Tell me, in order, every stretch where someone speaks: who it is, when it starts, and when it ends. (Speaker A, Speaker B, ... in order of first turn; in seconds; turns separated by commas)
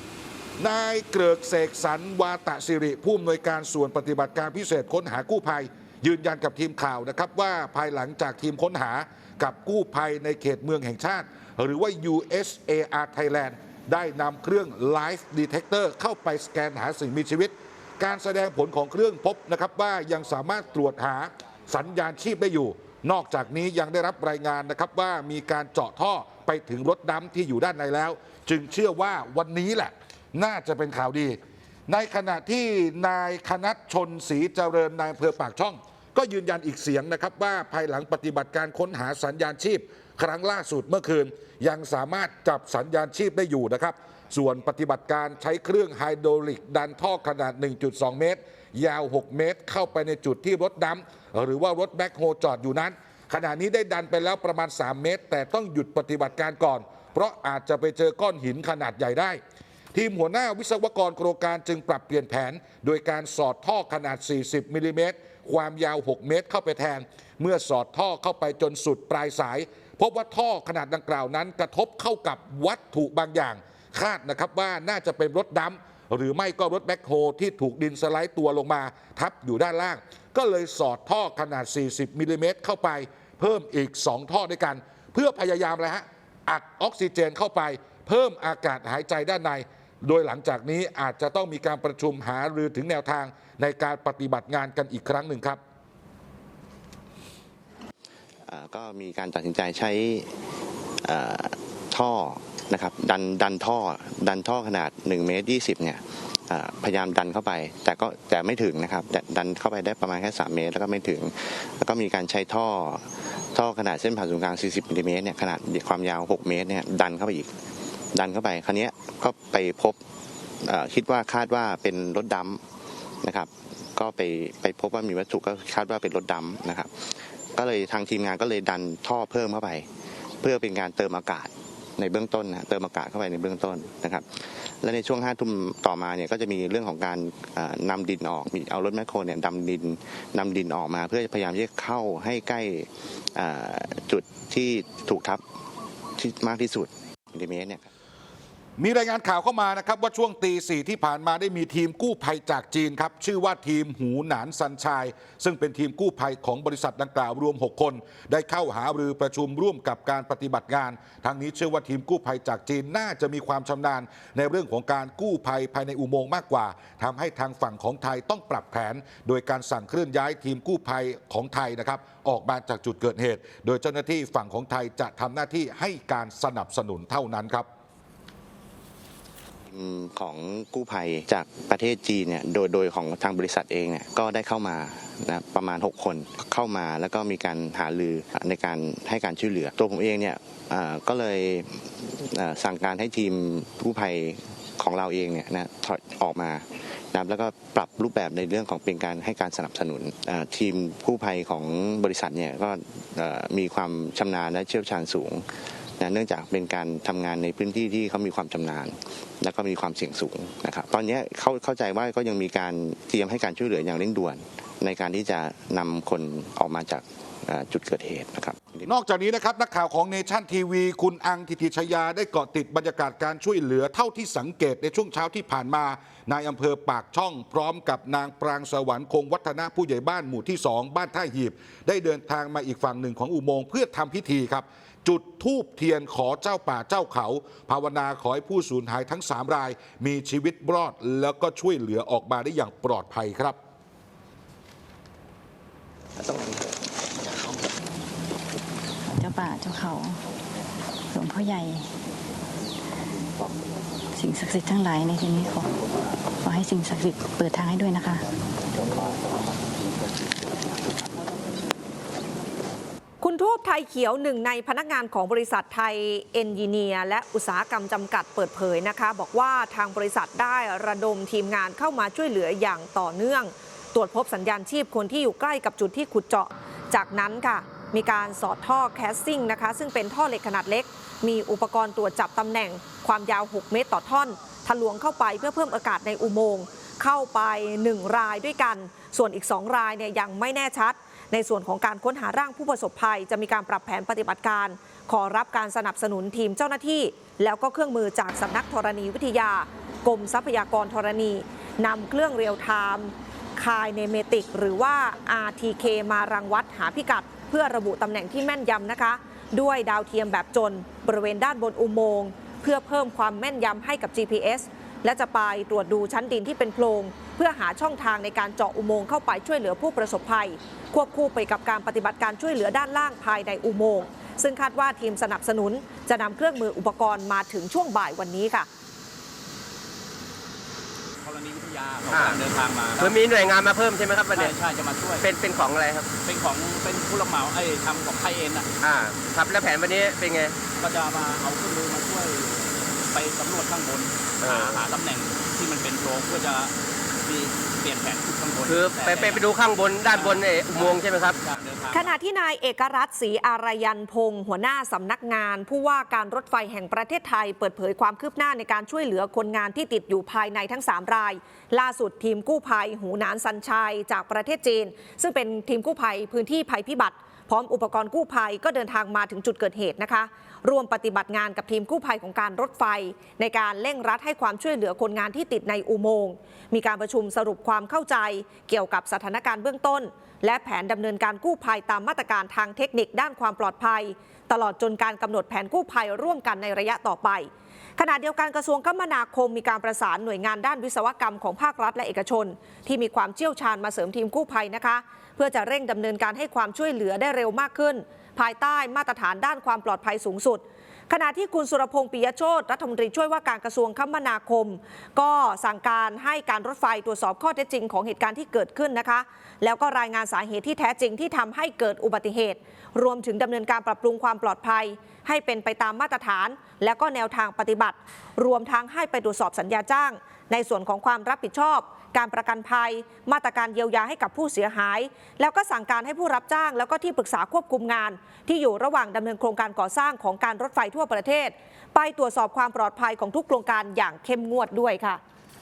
Speaker A: 0.6-31.4, Speaker A: 31.9-59.4, Speaker A: 59.9-95.6, Speaker B: 98.5-100.3, Speaker B: 101.0-117.5, Speaker B: 118.1-120.0, Speaker B: 120.6-122.6, Speaker B: 123.2-129.9, Speaker B: 130.4-145.4, Speaker B: 146.2-147.8, Speaker A: 148.8-177.7, Speaker B: 179.7-218.8, Speaker A: 218.8-243.6, Speaker C: 249.1-250.2, Speaker C: 251.1-251.9, Speaker C: 254.2-255.7, Speaker C: 256.4-258.2, Speaker D: 263.2-328.7, Speaker E: 331.2-333.2, Speaker F: 332.1-332.4, Speaker F: 333.0-334.5, Speaker E: 334.3-335.2, Speaker F: 335.2-336.1, Speaker E: 336.2-338.7, Speaker F: 338.8-340.6, Speaker E: 340.8-346.7, Speaker F: 344.4-344.8, Speaker E: 347.2-352.2, Speaker F: 348.7-351.4, Speaker D: 351.9-435.2